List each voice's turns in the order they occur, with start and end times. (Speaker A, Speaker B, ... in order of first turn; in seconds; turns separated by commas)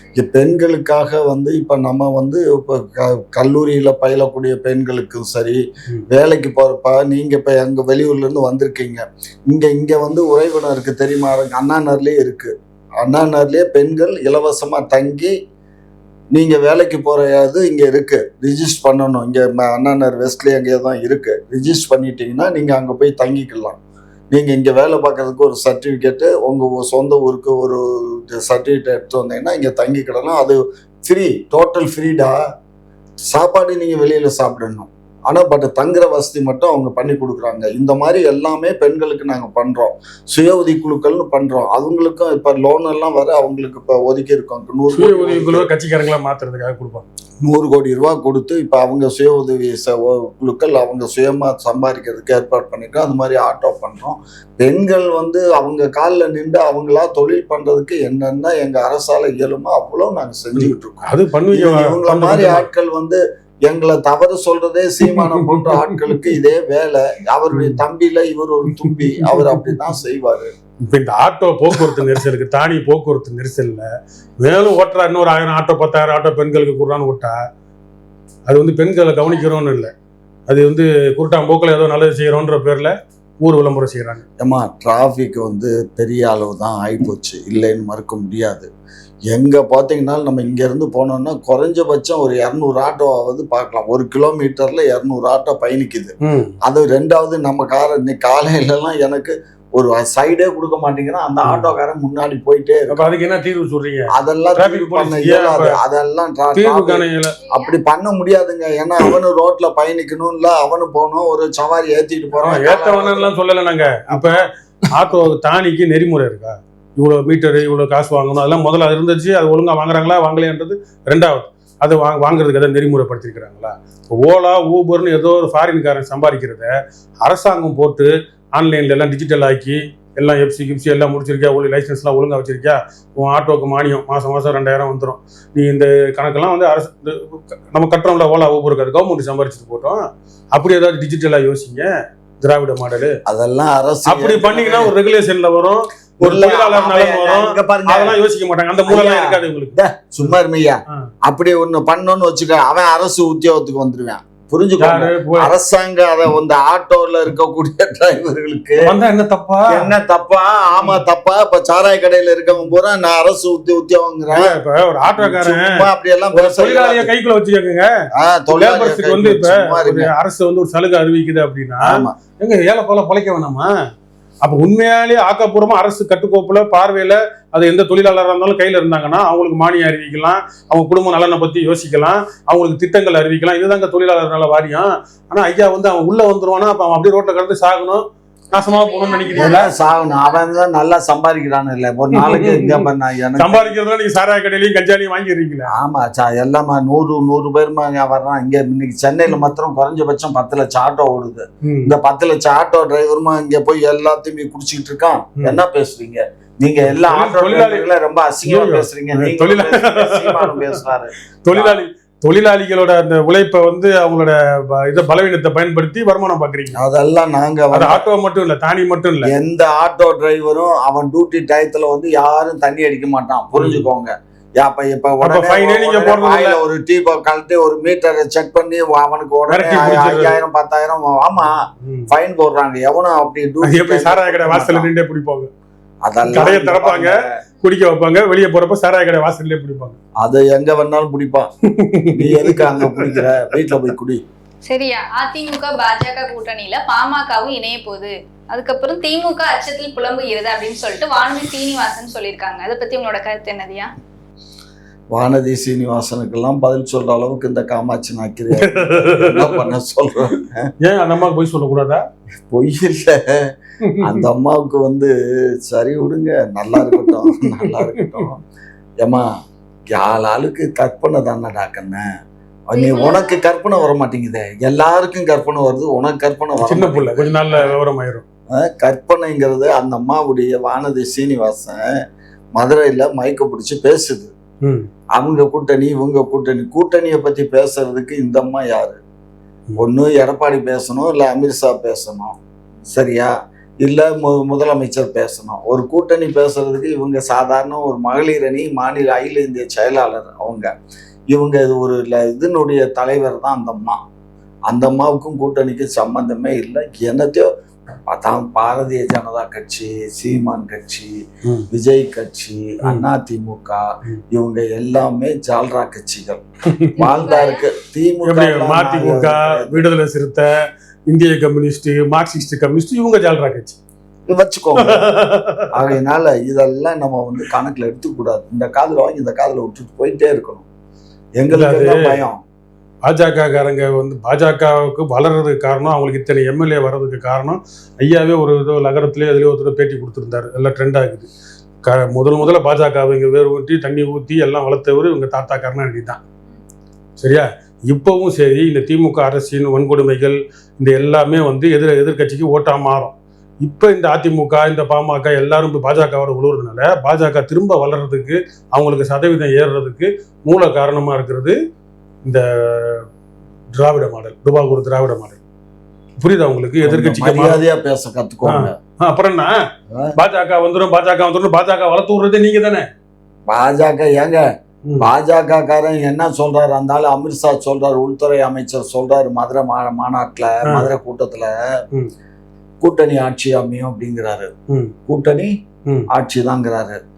Speaker A: 0.2-2.9, Speaker A: 3.4-5.6, Speaker A: 6.2-12.5, Speaker A: 13.0-15.3, Speaker A: 16.4-23.8, Speaker A: 24.3-27.8, Speaker A: 28.3-32.4, Speaker A: 33.3-45.7, Speaker B: 44.9-47.1, Speaker A: 47.5-70.5, Speaker B: 60.6-62.7, Speaker B: 65.1-66.4, Speaker B: 67.5-67.8, Speaker B: 68.7-69.9, Speaker B: 70.8-73.9, Speaker B: 74.4-77.3, Speaker B: 78.5-79.9, Speaker B: 80.5-84.2, Speaker A: 84.4-88.7, Speaker A: 89.3-96.1, Speaker B: 96.3-96.5, Speaker A: 96.7-102.9, Speaker B: 101.4-101.7, Speaker B: 102.9-105.8, Speaker A: 104.1-113.3, Speaker B: 106.5-107.4, Speaker C: 107.4-107.8, Speaker B: 112.3-126.7, Speaker A: 113.9-114.3, Speaker B: 127.2-140.0, Speaker B: 140.5-141.9, Speaker B: 142.4-143.2, Speaker A: 143.4-144.8, Speaker B: 144.1-150.3, Speaker A: 146.2-148.2, Speaker A: 148.9-149.4, Speaker A: 150.0-150.8, Speaker A: 151.3-158.8, Speaker B: 154.8-155.5, Speaker B: 158.8-159.9, Speaker A: 159.8-164.5, Speaker B: 160.8-161.0, Speaker B: 164.3-165.7, Speaker A: 165.2-167.1, Speaker B: 166.3-167.9, Speaker A: 168.2-170.1, Speaker B: 168.5-173.7, Speaker B: 174.4-189.7, Speaker C: 188.5-190.4, Speaker A: 189.4-193.7, Speaker B: 192.2-195.7, Speaker A: 195.8-211.6, Speaker B: 201.7-201.9, Speaker B: 206.9-207.9, Speaker B: 208.4-210.7, Speaker B: 211.4-216.8, Speaker A: 216.9-218.0, Speaker B: 217.7-219.3, Speaker A: 219.2-231.5, Speaker B: 223.5-223.9, Speaker B: 225.2-226.6, Speaker B: 229.5-230.4, Speaker B: 231.4-232.1, Speaker A: 232.1-234.9, Speaker B: 233.6-235.5, Speaker A: 236.1-237.1, Speaker B: 236.2-240.0, Speaker A: 240.3-241.5, Speaker B: 241.8-243.9, Speaker A: 242.4-244.2, Speaker C: 244.7-253.9, Speaker A: 255.3-260.5, Speaker B: 258.6-259.8, Speaker B: 260.8-262.0, Speaker A: 262.5-263.2, Speaker B: 263.8-264.3, Speaker A: 264.1-265.1, Speaker A: 265.7-268.4, Speaker B: 266.8-268.3, Speaker A: 269.9-272.0, Speaker A: 272.7-277.2, Speaker C: 272.7-273.4, Speaker B: 276.6-278.2, Speaker A: 278.6-281.8, Speaker A: 282.6-284.3, Speaker A: 285.2-289.0, Speaker A: 289.8-292.3, Speaker A: 292.9-293.3, Speaker A: 293.9-300.6, Speaker A: 301.4-304.0, Speaker A: 304.7-307.4, Speaker A: 308.2-311.1, Speaker A: 311.8-313.7, Speaker B: 312.8-313.1, Speaker A: 314.4-316.4, Speaker B: 316.8-317.0, Speaker C: 316.9-317.7, Speaker A: 317.1-319.8, Speaker B: 318.2-320.5, Speaker B: 321.1-323.8, Speaker A: 324.3-324.9, Speaker B: 324.8-325.9, Speaker A: 325.9-330.6, Speaker A: 331.4-332.4, Speaker B: 331.5-332.0, Speaker B: 333.1-341.3, Speaker B: 341.9-346.2, Speaker B: 347.2-361.6, Speaker B: 362.2-363.1, Speaker B: 363.8-365.4, Speaker B: 366.2-367.6, Speaker A: 366.9-368.6, Speaker B: 368.4-369.5, Speaker B: 370.2-372.9, Speaker A: 373.6-374.4, Speaker A: 375.1-381.6, Speaker B: 380.6-380.9, Speaker A: 382.8-384.5, Speaker A: 385.1-385.5, Speaker A: 386.2-387.0